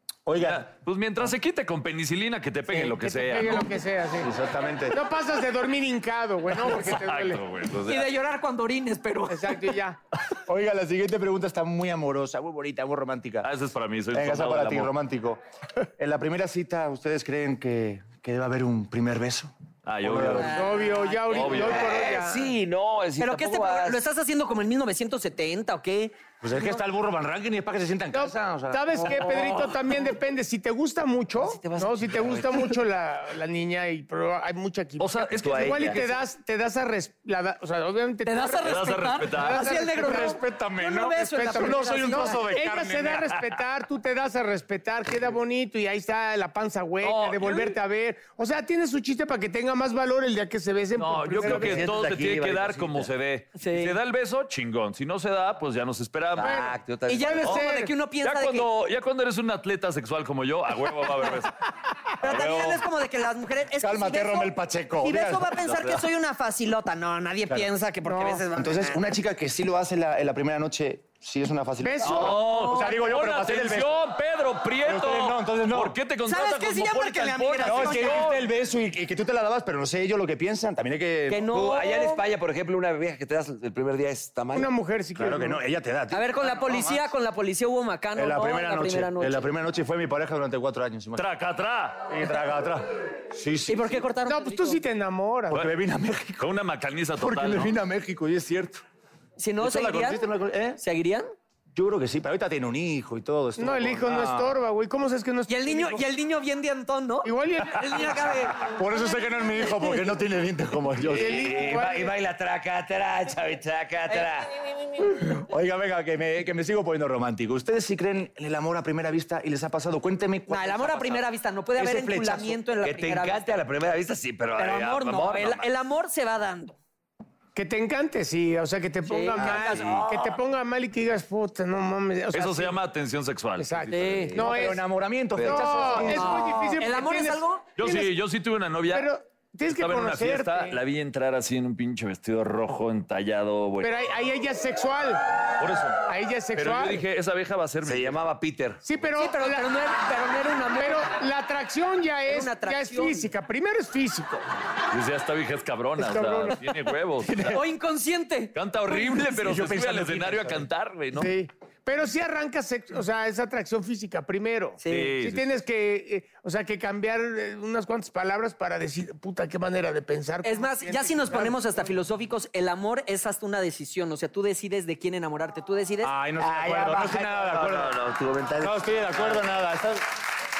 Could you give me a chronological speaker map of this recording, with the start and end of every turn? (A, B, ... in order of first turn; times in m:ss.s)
0:00.2-0:00.6 A
0:00.4-0:03.7 B
0:02.7-0:04.3 C
0:04.2-0:05.0 A
0:04.9-0:07.4 C
0:06.5-0:08.1 B
0:07.8-0:09.7 D
0:09.3-0:10.0 C
0:10.4-0:13.5 A
0:13.4-0:14.9 B
0:14.1-0:15.4 A
0:16.0-0:20.6 A
0:19.8-0:20.7 B
0:20.2-0:21.8 D
0:20.5-0:22.5 C
0:21.3-0:22.0 B
0:21.5-0:24.0 E
0:23.2-0:26.2 D
0:26.4-0:29.2 A
0:28.1-0:38.7 C
0:29.3-0:29.7 D
0:31.4-0:32.7 E
0:35.0-0:36.2 B
0:35.4-0:36.0 E
0:38.2-0:42.6 D
0:38.6-0:39.7 B
0:39.3-0:40.3 C
0:40.0-0:43.4 A
0:41.4-0:51.9 C
0:47.0-0:47.8 B
0:51.0-0:56.7 B
0:51.4-0:53.1 E
0:53.6-0:54.0 D
0:56.3-0:57.6 E
0:56.4-0:56.7 C
0:57.1-0:58.7 D
0:57.3-0:57.9 C
0:58.2-1:01.5 B
1:02.2-1:02.8 B
1:02.2-1:09.0 D
1:03.8-1:05.6 A
1:05.7-1:06.0 B
1:07.5-1:14.0 A
1:08.1-1:08.4 C
1:11.8-1:13.0 C
1:12.0-1:18.4 B
1:12.5-1:12.8 D
1:14.8-1:16.0 A
1:16.2-1:18.3 D
1:17.6-1:21.4 A
1:21.3-1:22.2 D
1:21.3-1:24.7 E
1:24.5-1:25.6 C
1:25.2-1:27.1 A
1:26.1-1:29.5 D
1:28.2-1:31.3 A
1:31.2-1:32.0 B
1:32.1-1:34.0 A
1:33.7-1:34.8 D
1:34.2-1:35.6 C
1:35.5-1:36.5 A
1:36.4-1:37.8 B
1:37.2-1:38.8 A
1:39.4-1:40.2 D
1:39.6-1:40.8 A
1:40.8-1:41.3 D
1:41.7-1:44.5 A
1:43.6-1:46.0 C
1:45.5-1:48.7 D
1:47.2-1:48.1 C
1:48.6-1:51.6 A
1:51.0-1:55.0 E
1:51.1-1:52.1 C
1:55.1-2:01.2 A
2:00.5-2:03.6 D
2:01.8-2:02.6 A
2:02.8-2:05.7 E
2:04.6-2:06.8 D
2:07.5-2:12.8 C
2:09.0-2:10.3 D
2:09.3-2:10.2 E
2:12.3-2:14.4 B
2:13.6-2:14.8 C
2:13.9-2:14.6 D
2:14.4-2:16.4 A
2:15.4-2:16.3 E
2:15.4-2:18.1 C
2:15.9-2:17.7 D
2:17.8-2:19.1 B
2:18.9-2:20.8 C
2:19.7-2:23.9 B
2:23.8-2:25.2 C
2:25.6-2:26.0 B
2:26.1-2:27.0 C
2:26.6-2:28.2 B
2:27.8-2:28.8 E
2:28.8-2:29.7 C
2:29.1-2:31.1 D
2:30.8-2:34.4 C
2:32.3-2:33.3 D
2:34.9-2:37.6 B
2:36.0-2:36.6 C
2:37.2-2:37.6 A
2:37.5-2:39.0 D
2:38.5-2:41.3 B
2:39.1-2:40.6 A
2:41.1-2:51.5 C
2:44.8-2:45.2 D
2:44.9-2:45.5 B
2:50.4-2:56.1 D
2:56.0-2:57.9 A
2:56.4-2:59.4 E
2:58.6-3:00.0 A